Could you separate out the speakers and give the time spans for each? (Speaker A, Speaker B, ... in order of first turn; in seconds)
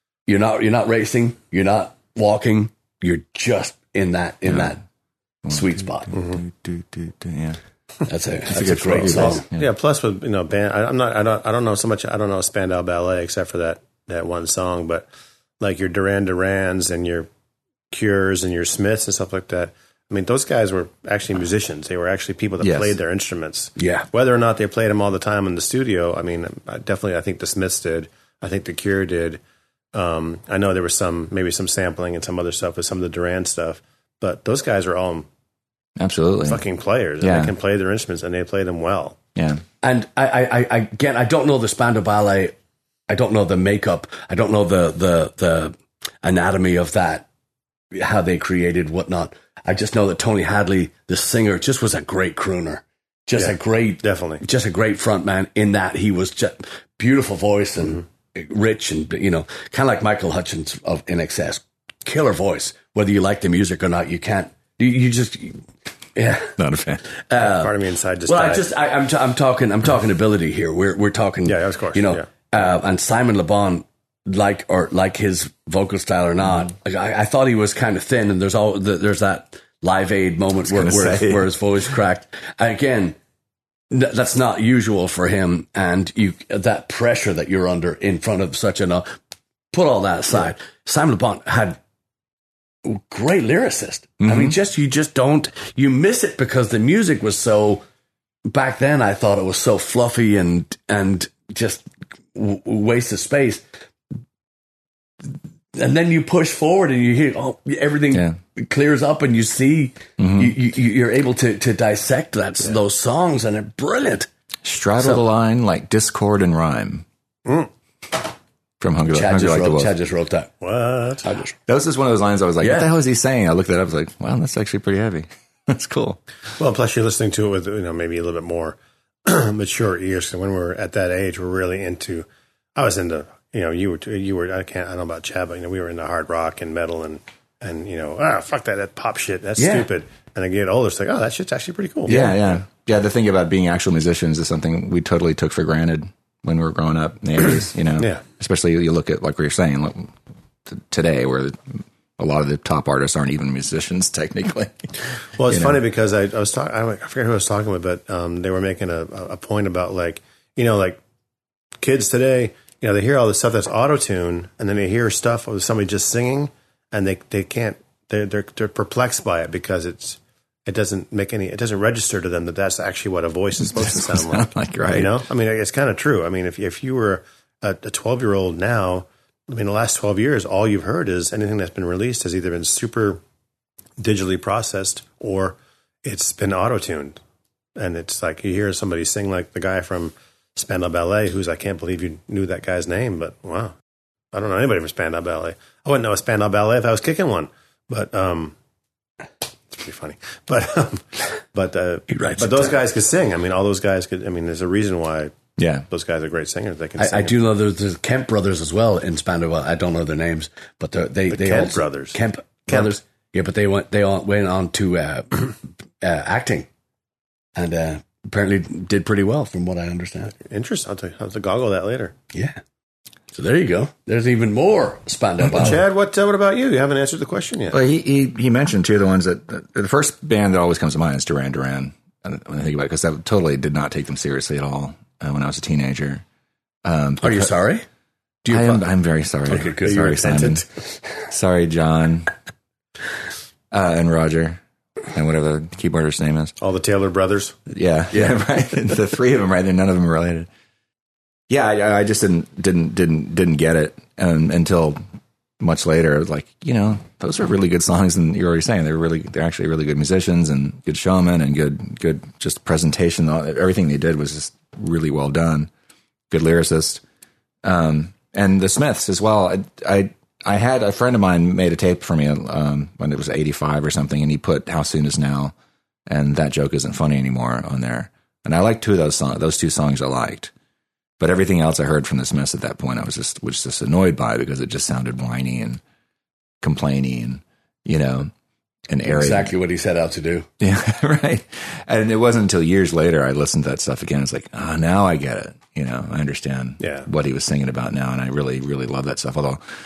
Speaker A: 0.3-4.8, 5.5-6.1, 8.1-9.4, 23.8-24.1, 39.8-42.5, 43.1-47.3, 47.9-65.6, 66.2-66.6, 67.3-67.7, 68.3-83.2, 83.9-89.1, 89.7-91.8, 92.8-97.8, 98.5-103.6, 105.8-114.3, 119.1-120.5, 121.2-121.5, 122.6-122.9, 139.6-139.9, 142.1-142.4, 202.1-202.8, 207.0-216.7, 217.6-220.3, 222.3-222.6, 223.3-225.8, 237.2-237.8, 238.4-238.8, 239.5-240.1, 289.1-290.5
Speaker B: 4.5-4.8, 5.5-7.6, 8.5-9.7, 22.6-23.0, 36.0-36.6, 37.2-37.5, 39.4-39.6, 66.6-67.0, 80.7-81.5, 94.2-94.6, 108.1-108.4, 110.2-110.6, 114.6-117.0, 118.8-119.9, 121.7-126.2, 142.1-150.1, 150.7-154.9, 155.5-155.8, 173.6-175.2, 205.6-205.9, 227.7-236.2, 236.8-237.5, 238.5-240.6, 241.3-242.3, 243.7-244.6, 245.1-246.6, 247.7-250.5, 251.5-255.0, 255.6-265.7, 266.3-267.0, 267.6-275.5, 276.1-280.5, 281.2-285.8, 286.6-288.3, 288.9-289.5, 290.6-299.6
Speaker C: 6.1-6.4, 9.1-15.1, 15.6-17.3, 17.9-29.4, 29.9-35.3, 36.5-39.2, 53.4-54.4, 67.4-68.7, 71.5-72.3, 120.6-121.3, 126.6-142.3, 155.4-161.0, 161.8-183.2, 184.0-187.2, 187.8-193.7, 194.3-198.6, 199.7-205.3, 205.9-207.4, 211.3-212.2, 220.4-222.1, 225.5-227.8, 239.8-240.7, 246.6-247.6, 296.8-297.1